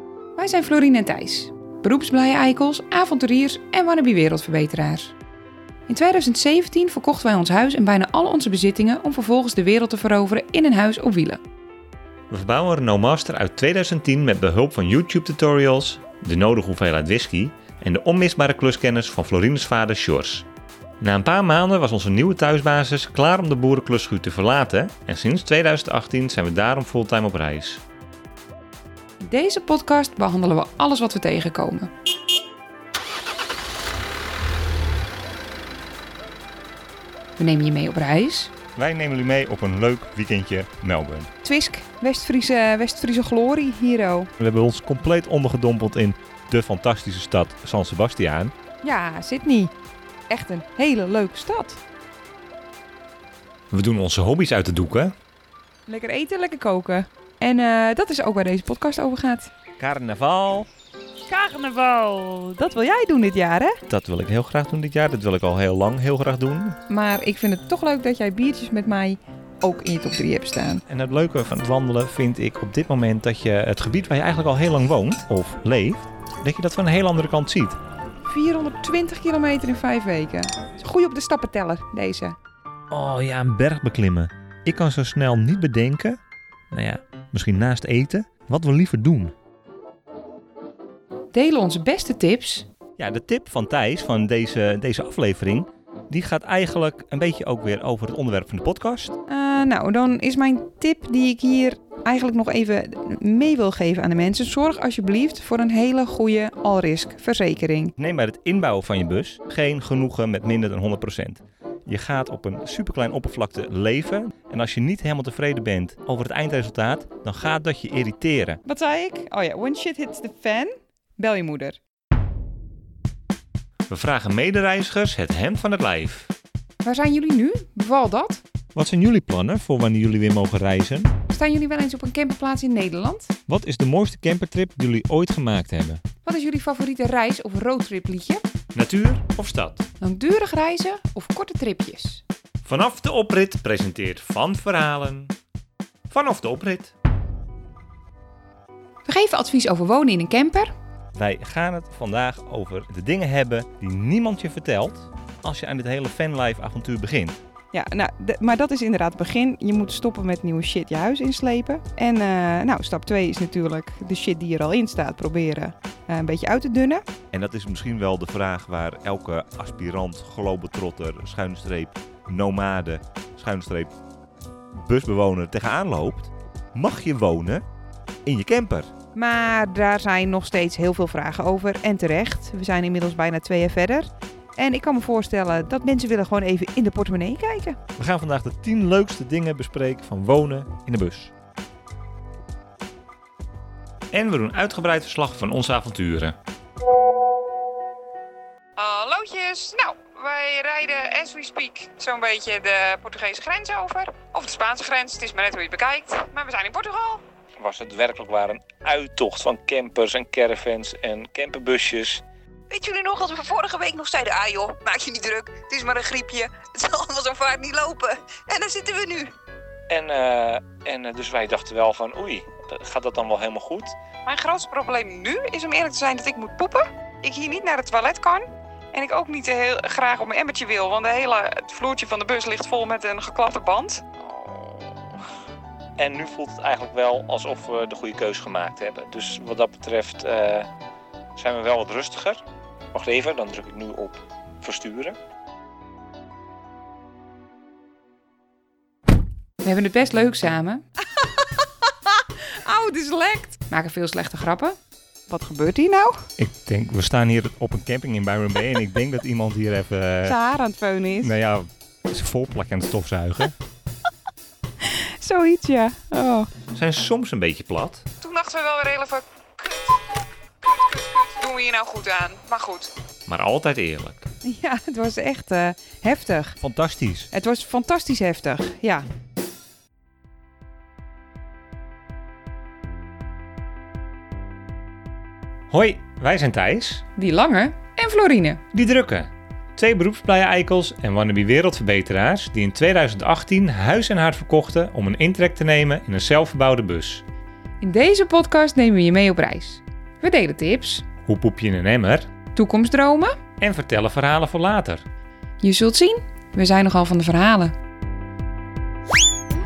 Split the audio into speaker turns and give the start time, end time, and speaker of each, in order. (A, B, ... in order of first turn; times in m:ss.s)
0:00.4-0:05.1 A
0:05.9-0:11.4 A
0:12.3-0:20.5 B
0:21.0-0:27.8 B
0:29.2-0:31.9 A
0:37.4-0:38.5 A
0:38.8-0:41.3 B
0:41.4-0:44.3 A
0:44.4-0:48.5 B
0:48.8-0:49.7 A
0:50.3-0:51.8 A
0:53.7-0:55.1 B
0:55.9-0:59.5 A
0:59.8-1:00.7 B
1:01.3-1:03.8 A
1:01.6-1:02.3 B
1:03.9-1:06.8 B
1:06.9-1:10.8 A
1:10.9-1:17.8 B
1:18.2-1:22.4 A
1:22.9-1:26.2 B
1:26.7-1:29.3 B
1:31.3-1:32.7 A
1:33.0-1:39.1 B
1:39.3-1:47.9 A
1:48.0-1:58.6 B
1:58.6-2:01.8 A
2:03.9-2:06.3 B
2:06.8-2:08.4 A
2:08.7-2:11.1 B
2:11.3-2:13.3 A
2:13.5-2:16.0 B
2:16.2-2:18.4 A
2:18.7-2:19.8 B
2:20.0-2:22.2 A
2:22.6-2:25.3 B
2:26.1-2:26.9 B
2:29.0-2:30.7 A
2:31.1-2:37.4 B
2:37.7-2:47.1 A
2:47.3-2:53.9 B
2:54.8-2:57.6 B
2:58.2-2:58.9 B
2:59.1-3:07.8 A
3:08.0-3:11.3 B
3:14.1-3:16.3 B
3:18.8-3:27.2 A
3:27.6-3:32.2 B
3:32.7-3:39.3 A
3:39.9-3:44.0 B
3:44.2-3:54.1 A
3:56.0-4:00.7 B
4:01.4-4:05.2 B
4:09.6-4:10.8 A
4:12.1-4:14.8 A
4:15.3-4:16.2 A
4:16.4-4:20.4 B
4:20.2-4:21.3 A
4:21.2-4:23.6 B
4:24.8-4:26.5 A
4:26.7-4:28.0 B
4:28.2-4:30.0 A
4:30.6-4:32.9 A
4:33.3-4:34.3 B
4:34.4-4:36.6 A
4:36.6-4:37.3 B
4:37.3-4:39.0 A
4:45.7-4:47.0 B
4:47.2-4:48.6 A
4:48.7-4:57.2 B
4:57.8-5:01.0 A
5:01.2-5:02.3 B
5:02.5-5:03.4 A
5:03.6-5:05.0 B
5:05.6-5:07.7 A